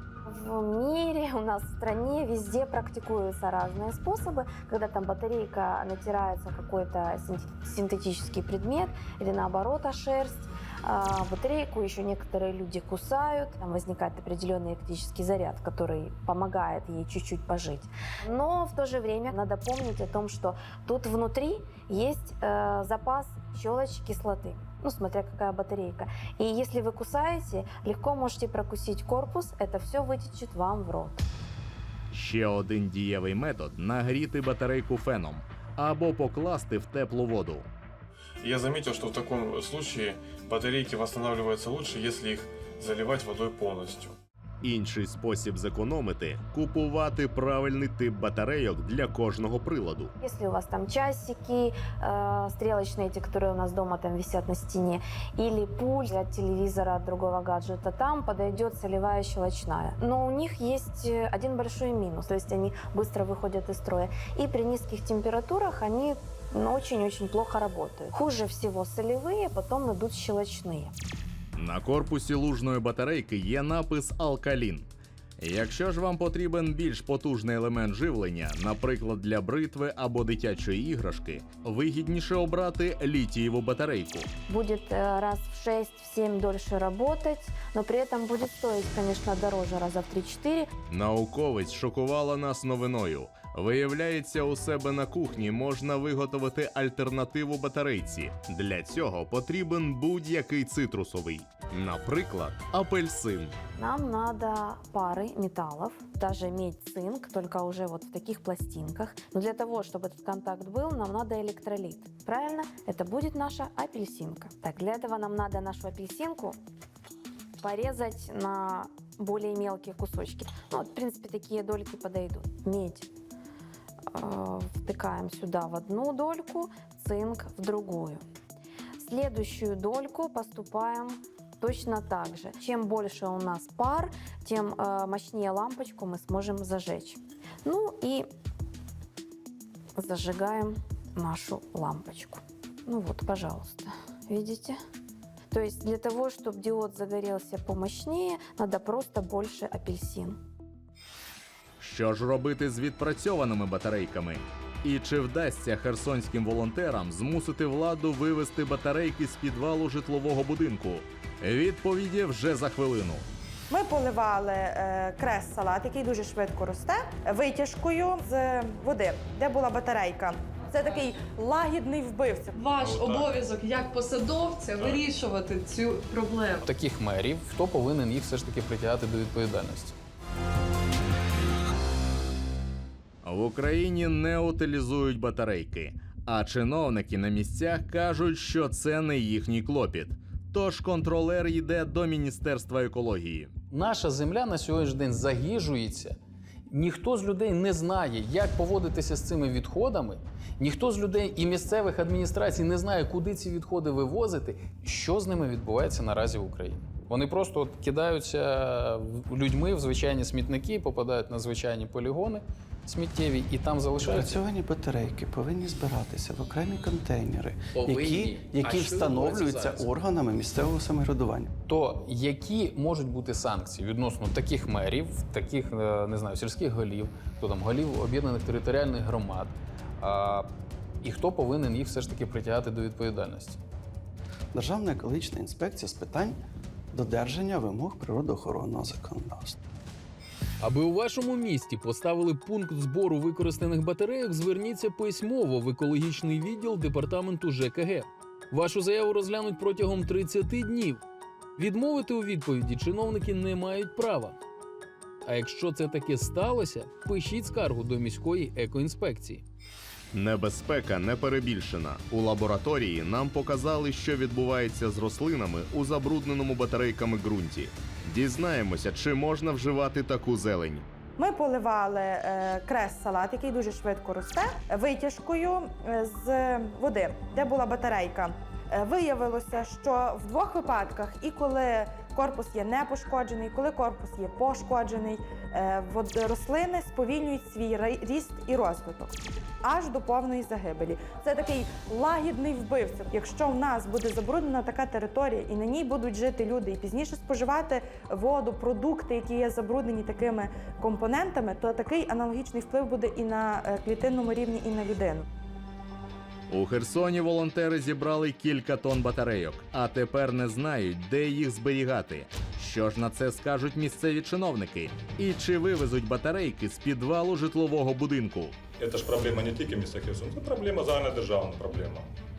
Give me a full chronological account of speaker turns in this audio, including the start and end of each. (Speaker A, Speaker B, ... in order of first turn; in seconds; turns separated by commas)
Speaker A: 0.2-31.3, Speaker B: 32.1-37.7, Speaker C: 38.4-44.1, Speaker B: 44.6-50.1, Speaker A: 50.2-70.9, Speaker B: 71.5-74.9, Speaker B: 75.4-84.3, Speaker A: 84.5-90.7, Speaker B: 90.9-103.5, Speaker A: 103.8-116.6, Speaker A: 117.6-123.1, Speaker A: 124.1-128.2, Speaker A: 129.0-138.2, Speaker A: 139.9-144.8, Speaker A: 145.5-150.4, Speaker B: 151.8-163.2, Speaker D: 163.7-172.6, Speaker E: 172.5-176.6, Speaker F: 172.8-173.3, Speaker F: 174.8-175.0, Speaker G: 176.6-179.9, Speaker B: 183.2-193.5, Speaker G: 193.7-196.2, Speaker G: 196.7-214.4, Speaker H: 214.0-221.5, Speaker G: 217.7-219.8, Speaker G: 221.7-230.5, Speaker G: 231.0-233.6, Speaker H: 234.5-236.4, Speaker H: 236.9-239.6, Speaker G: 240.6-251.0, Speaker G: 251.6-254.3, Speaker G: 255.2-259.4, Speaker B: 260.1-270.9, Speaker D: 271.2-305.3, Speaker B: 306.5-318.6, Speaker F: 318.8-322.1